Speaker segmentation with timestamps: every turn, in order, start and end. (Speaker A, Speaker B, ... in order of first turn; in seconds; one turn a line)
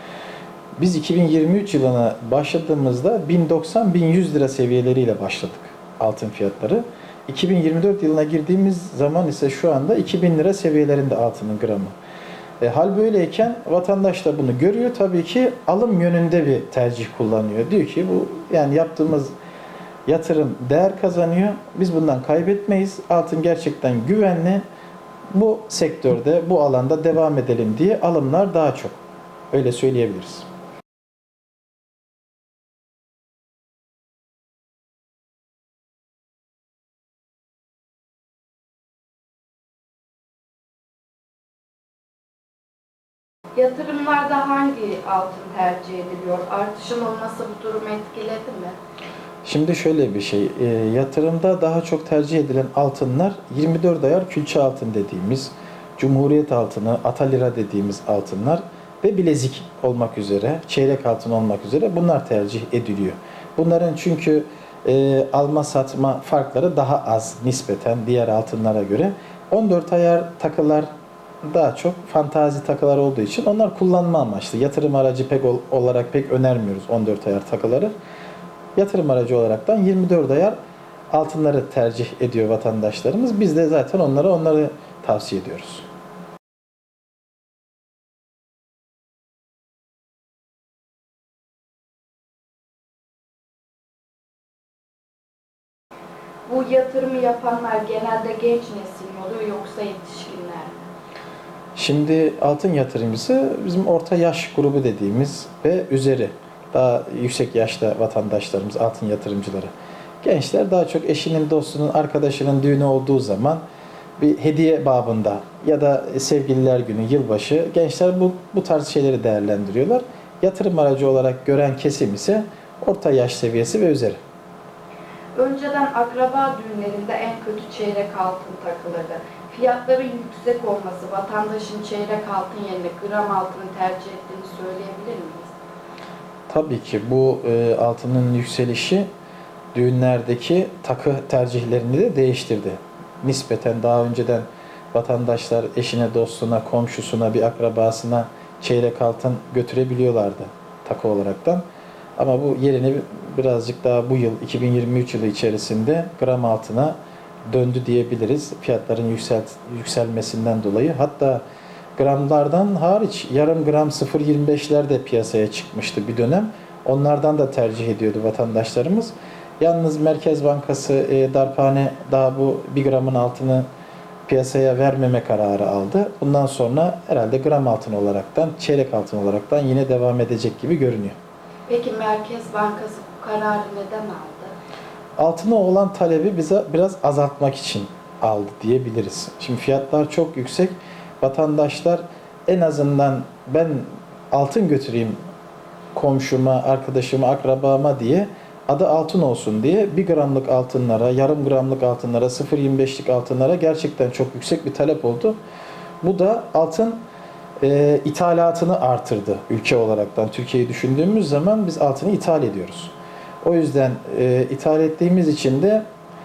Speaker A: 0.8-11.9
Speaker A: 12.6-19.3
Speaker A: 20.1-24.6
Speaker A: 25.3-29.0
Speaker A: 29.5-30.5
Speaker B: 43.5-48.8
Speaker A: 49.4-70.9
Speaker A: 71.4-77.9
Speaker A: 78.8-80.5
Speaker A: 81.1-85.8
Speaker B: 96.5-100.8
Speaker A: 101.8-109.7
Speaker A: 110.2-113.6
Speaker A: 114.2-124.2
Speaker B: 125.3-135.5
Speaker A: 136.5-139.1
Speaker A: 139.7-151.6
Speaker A: 152.2-156.9
Speaker A: 157.5-161.4
Speaker A: 161.9-173.6
Speaker A: 174.2-181.2
Speaker B: 181.7-184.5
Speaker A: 185.2-195.2
Speaker A: 195.9-205.4
Speaker A: 206.0-207.0
Speaker A: 207.6-215.8